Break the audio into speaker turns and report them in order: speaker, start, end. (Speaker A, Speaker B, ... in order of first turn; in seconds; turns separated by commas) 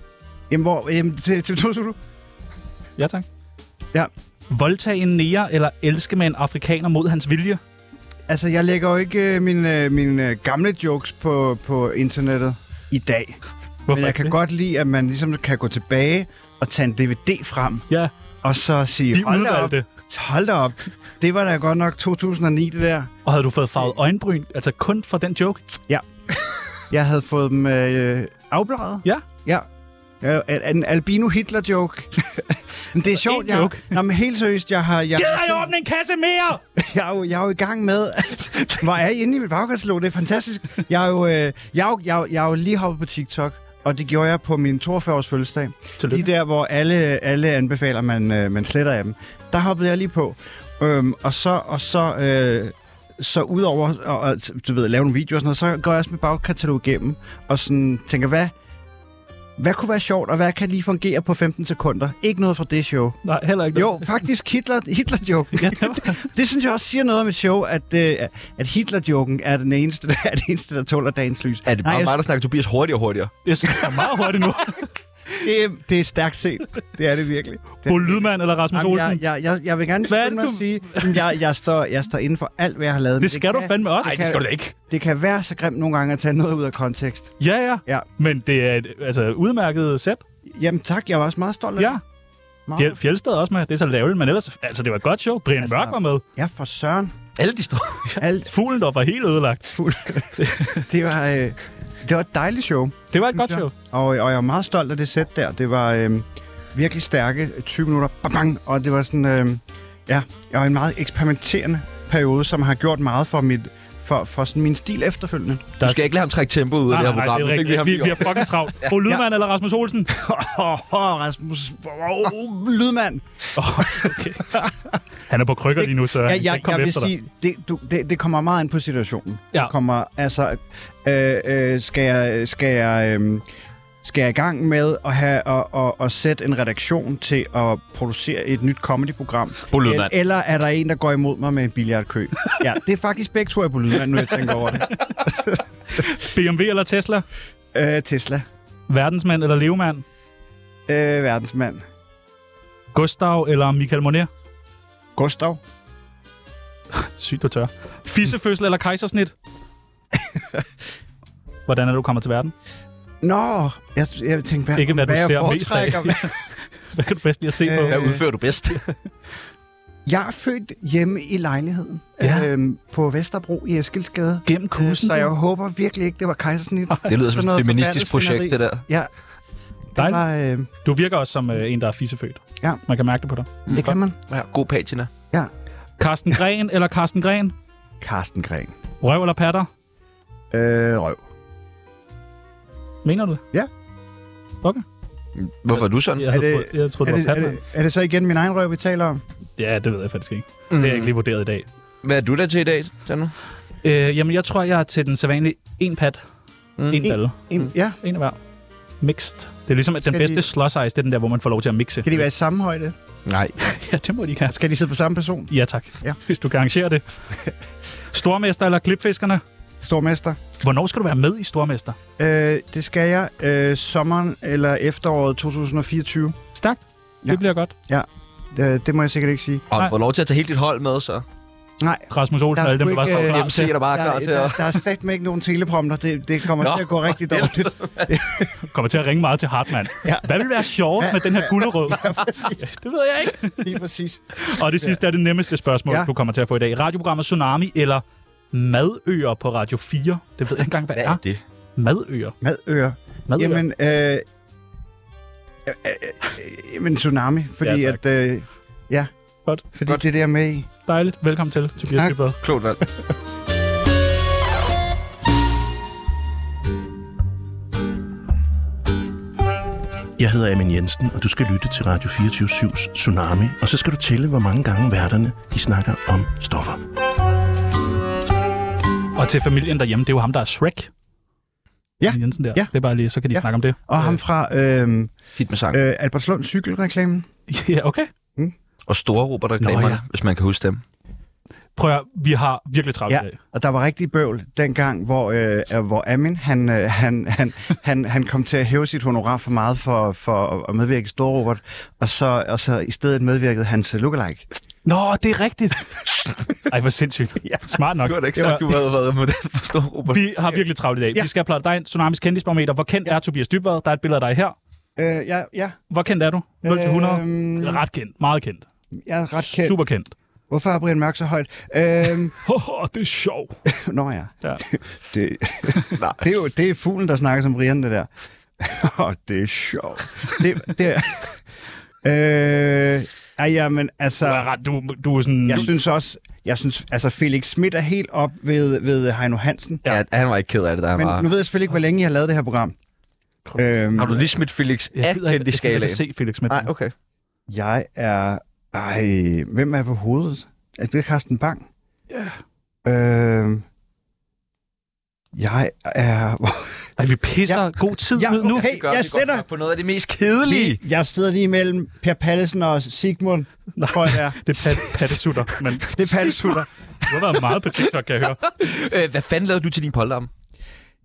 Speaker A: 0.5-2.0, Speaker B: 3.0-3.2, Speaker B: 4.5-7.6, Speaker A: 8.3-17.9, Speaker B: 13.9-14.4, Speaker A: 18.4-23.1, Speaker B: 19.1-19.9, Speaker B: 23.3-25.6, Speaker A: 25.9-26.3, Speaker A: 26.9-29.7, Speaker A: 30.2-35.7, Speaker B: 33.2-34.0, Speaker B: 35.2-36.6, Speaker A: 36.8-58.5, Speaker B: 46.0-46.3, Speaker A: 59.6-63.2, Speaker B: 63.2-64.1, Speaker A: 63.7-72.2, Speaker B: 65.5-66.2, Speaker C: 71.7-73.8, Speaker B: 73.5-74.9, Speaker A: 75.3-88.1, Speaker B: 77.8-79.2, Speaker B: 80.1-81.2, Speaker B: 83.2-84.2, Speaker C: 84.0-84.7, Speaker B: 87.4-90.2, Speaker A: 90.5-92.0, Speaker A: 92.7-93.0, Speaker B: 92.8-96.2, Speaker A: 95.6-97.2, Speaker C: 97.4-98.0, Speaker B: 98.1-99.7, Speaker A: 98.2-98.5, Speaker A: 99.7-115.7, Speaker B: 100.3-100.9, Speaker B: 103.1-103.7, Speaker C: 115.8-118.5, Speaker B: 116.9-120.1, Speaker A: 119.0-119.2, Speaker A: 120.1-123.3, Speaker B: 123.6-124.5, Speaker A: 123.8-125.0, Speaker B: 125.3-127.1, Speaker A: 125.8-133.4, Speaker A: 134.0-145.6, Speaker C: 139.7-140.1, Speaker B: 145.9-147.2, Speaker A: 147.7-148.5, Speaker B: 148.9-150.0, Speaker A: 150.9-151.8, Speaker B: 152.9-154.3, Speaker A: 155.2-155.6, Speaker B: 156.9-159.3, Speaker B: 161.7-162.5, Speaker A: 163.2-166.4, Speaker B: 164.8-168.2, Speaker A: 167.6-168.2, Speaker C: 167.9-168.8, Speaker A: 170.1-179.1, Speaker B: 172.2-172.5, Speaker B: 174.5-175.3, Speaker C: 177.1-178.8, Speaker A: 179.9-180.7, Speaker B: 180.0-180.2, Speaker B: 180.8-183.9, Speaker A: 183.7-184.2, Speaker C: 183.7-185.1, Speaker B: 186.0-187.5, Speaker A: 188.0-188.8, Speaker B: 189.0-189.7, Speaker A: 190.5-191.2, Speaker B: 193.0-193.4, Speaker C: 195.4-196.3, Speaker B: 196.2-197.6, Speaker A: 196.3-199.2, Speaker B: 199.6-201.7, Speaker C: 200.7-201.1, Speaker C: 202.0-203.3, Speaker B: 203.8-206.2, Speaker C: 206.8-207.7, Speaker B: 206.9-207.4, Speaker A: 207.1-208.0, Speaker B: 208.0-208.4, Speaker B: 209.0-212.2, Speaker A: 210.1-210.4, Speaker A: 212.1-213.0, Speaker C: 213.3-213.6, Speaker B: 213.6-214.6, Speaker A: 214.5-215.5, Speaker B: 215.5-217.0, Speaker B: 218.1-219.4, Speaker A: 219.8-220.4, Speaker B: 220.6-222.0, Speaker A: 222.2-226.4, Speaker B: 226.6-227.7, Speaker A: 227.2-229.7, Speaker C: 229.7-231.2, Speaker A: 231.8-238.5, Speaker B: 232.1-233.8, Speaker C: 233.2-234.8, Speaker C: 236.6-238.2, Speaker B: 238.6-243.8, Speaker A: 240.0-242.7, Speaker A: 243.4-245.0, Speaker B: 244.3-251.2, Speaker C: 250.9-251.4, Speaker B: 251.8-252.3, Speaker A: 252.4-254.2, Speaker B: 253.3-253.6, Speaker A: 255.7-259.1, Speaker B: 257.6-258.0, Speaker A: 259.7-260.7, Speaker B: 260.9-262.4, Speaker C: 262.4-262.8, Speaker D: 270.2-276.8, Speaker B: 279.2-280.9, Speaker A: 282.0-282.7, Speaker B: 282.1-284.2, Speaker A: 283.3-285.1, Speaker C: 285.4-285.8, Speaker A: 285.7-287.3, Speaker B: 287.5-288.1, Speaker C: 288.9-290.8, Speaker B: 289.6-290.0, Speaker B: 291.8-293.4, Speaker A: 293.1-304.5, Speaker B: 304.9-305.9, Speaker B: 306.5-308.7, Speaker A: 307.4-307.8, Speaker C: 308.0-310.5, Speaker B: 310.1-314.6, Speaker A: 315.0-315.8, Speaker B: 315.9-318.7, Speaker A: 316.6-317.8, Speaker A: 319.0-319.8, Speaker B: 319.4-320.1, Speaker A: 320.5-322.4, Speaker B: 322.4-323.6, Speaker A: 323.7-328.1, Speaker A: 328.6-331.4, Speaker A: 332.0-334.5, Speaker B: 334.2-335.7, Speaker A: 335.5-339.8, Speaker C: 339.9-341.3, Speaker A: 341.0-342.8, Speaker B: 343.5-343.8, Speaker A: 343.6-344.3, Speaker C: 344.0-346.9, Speaker B: 344.9-346.7, Speaker A: 347.5-351.7, Speaker B: 352.1-352.4, Speaker A: 352.9-353.6, Speaker A: 355.3-356.9, Speaker B: 357.0-358.6, Speaker A: 357.5-359.5, Speaker C: 358.5-360.8, Speaker A: 360.4-364.8, Speaker B: 363.8-366.5, Speaker A: 365.8-366.7, Speaker B: 367.1-368.4, Speaker C: 368.4-370.3